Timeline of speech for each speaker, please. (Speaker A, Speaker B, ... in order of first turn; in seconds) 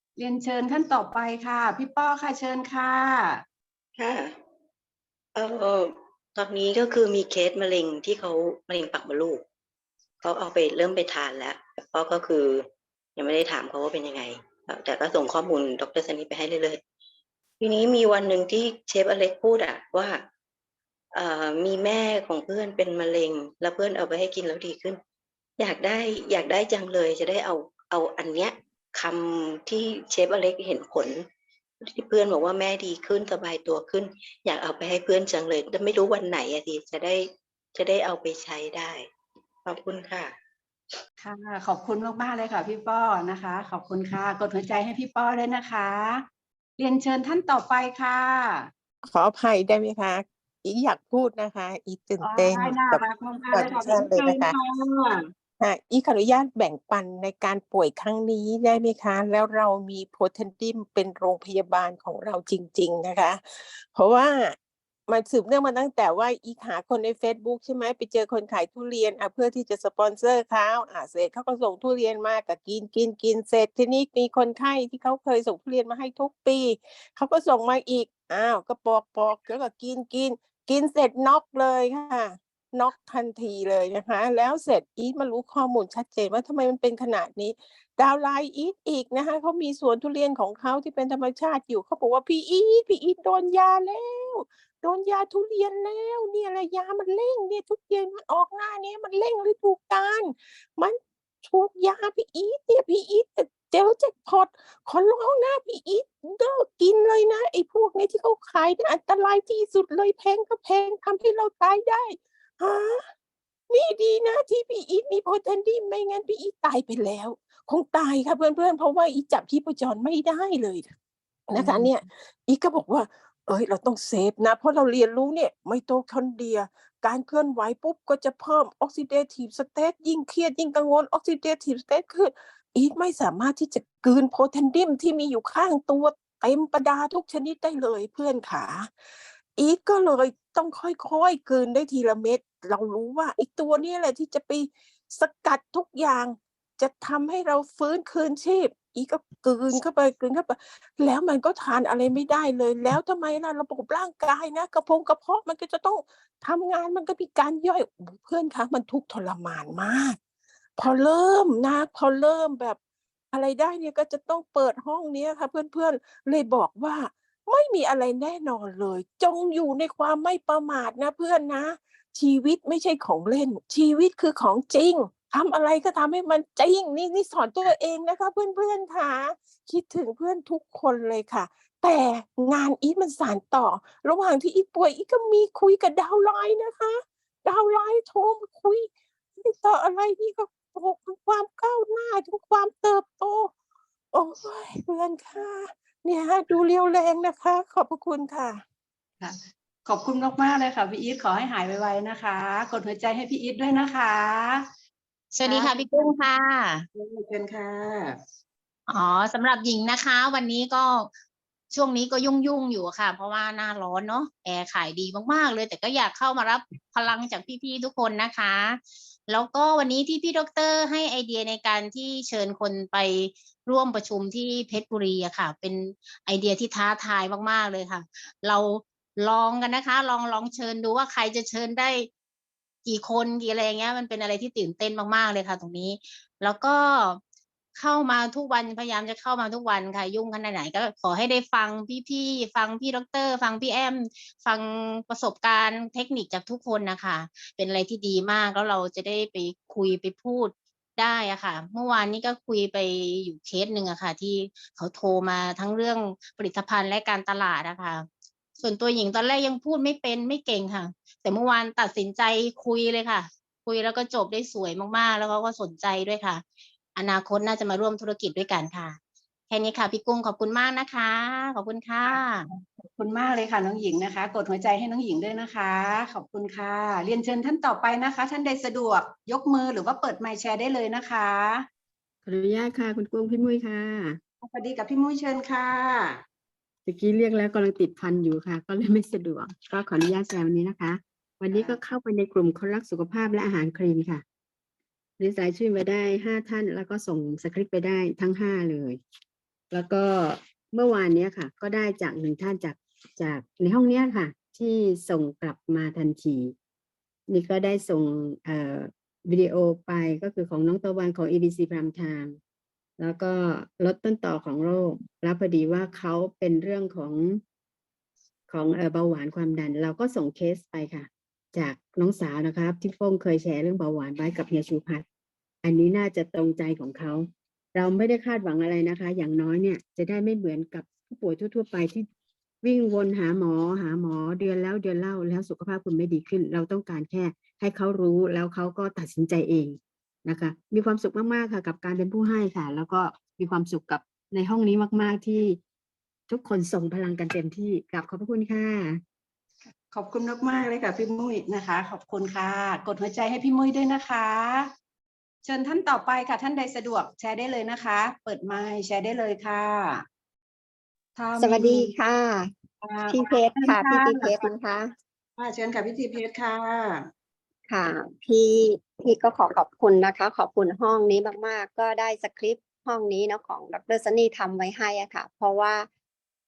Speaker A: 0.2-3.4, 41.2-46.3, 46.8-48.7, 52.2-55.2, 121.6-121.9, 199.2-204.7, 205.4-206.2, 206.9-208.2, 272.5-281.7, 284.4-286.2, 291.5-291.8, 349.9-354.7, 355.4-360.1, 361.2-361.9, 362.8-364.5, 365.4-367.1
Speaker B: 4.0-4.4, 5.3-9.4, 10.2-16.8, 17.6-20.3, 21.1-25.0, 25.6-31.3, 31.8-39.1, 39.6-40.4
Speaker C: 49.0-54.5, 55.6-64.6, 65.1-113.1, 113.7-120.9, 121.5-138.9, 139.6-160.2, 160.8-162.8, 163.3-193.5, 194.1-198.6
Speaker D: 205.3-206.9, 208.9-211.1, 211.7-232.1, 232.8-237.2, 237.8-258.1, 258.6-266.4, 266.9-269.0, 269.5-272.5
Speaker E: 282.2-284.2, 286.9-294.2, 295.2-299.0, 299.7-306.5, 307.3-312.4, 313.0-317.4, 318.5-325.0, 325.6-332.1, 332.6-345.6, 346.3-349.0
Speaker F: 361.4-362.5, 363.1-364.9, 367.7-375.9